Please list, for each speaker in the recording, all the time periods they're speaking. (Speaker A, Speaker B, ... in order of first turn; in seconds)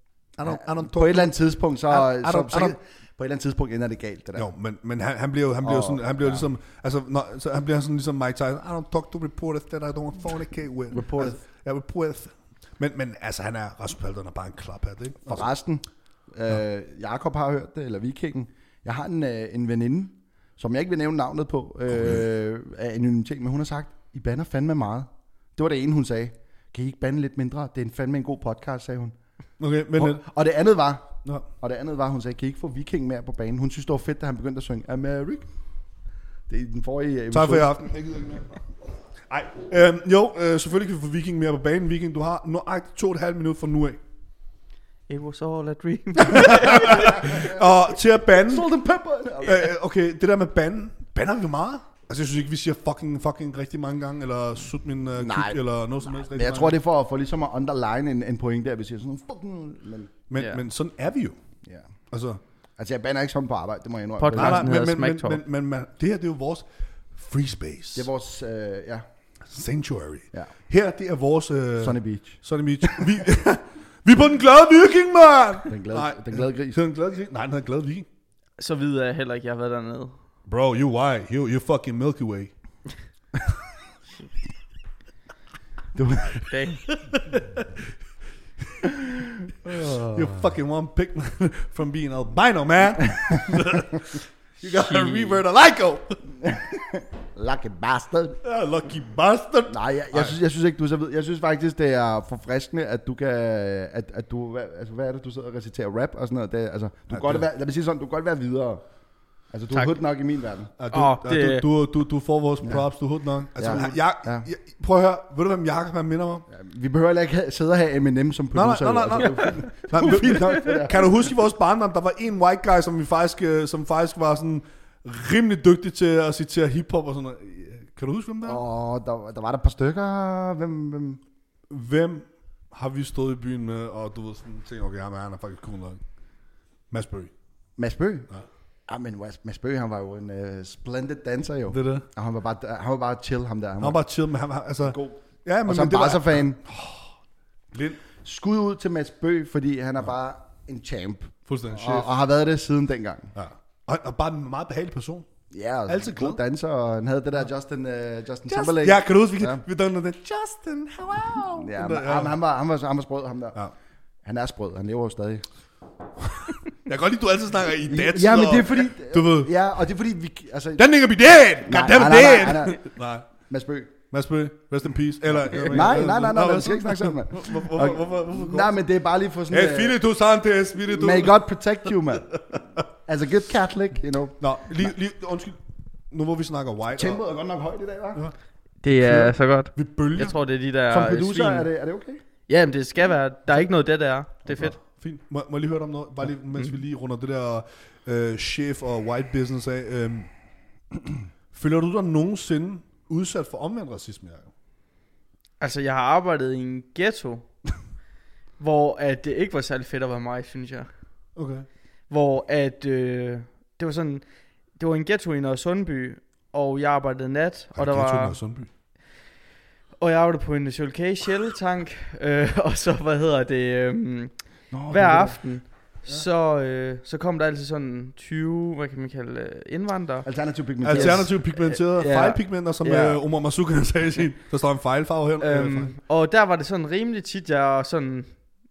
Speaker A: 0.4-1.3, 1.9-2.8, 4.3-15.4, 29.6-30.2, 37.3-38.6, 39.3-44.0, 46.2-48.7, 49.4-56.8, 60.3-61.4, 62.1-62.4, 64.3-68.1, 69.5-78.1, 80.5-82.5, 89.7-96.2, 98.4-100.4, 107.1-107.5, 110.8-116.5, 118.5-128.6, 131.7-136.0, 136.9-137.3, 141.7-142.1, 143.8-147.0, 147.7-148.0, 151.5-152.1, 153.3-155.3, 155.9-156.4, 158.5-162.4, 166.2-169.5, 170.8-173.3, 174.1-178.7, 179.5-181.4, 184.4-185.6, 186.1-187.2, 188.9-190.3, 194.5-200.3, 201.5-204.5, 211.4-211.7, 217.8-218.7, 230.8-235.9
Speaker B: 0.5-4.5, 5.6-6.5, 10.9-11.4, 15.2-29.1, 30.0-35.5, 36.5-37.7, 47.1-47.6, 48.4-49.7, 55.2-55.6, 56.2-60.1, 62.8-64.7, 68.0-69.0, 71.8-73.1, 75.7-76.8, 86.0-86.5, 88.8-90.1, 96.4-98.4, 99.7-108.8, 109.5-110.7, 113.6-114.5, 116.5-121.1, 128.4-131.2, 137.8-138.3, 138.9-144.0, 144.8-146.6, 148.2-153.3, 155.5-159.6, 161.6-163.6, 164.2-165.5, 167.9-170.8, 171.6-172.8, 173.5-173.9, 175.3-180.0, 180.9-182.3, 183.1-184.4, 187.0-188.2, 190.9-192.2, 224.7-225.4, 230.2-231.3, 232.8-233.2
Speaker C: 45.1-47.3, 64.2-65.4, 78.6-80.2, 86.5-87.0, 94.8-95.4, 110.9-111.7, 188.8-191.7, 192.5-194.8, 205.6-207.4, 208.6-210.9, 212.1-214.2, 214.8-218.4, 220.0-224.3, 224.9-230.3, 230.9-232.4, 235.4-238.3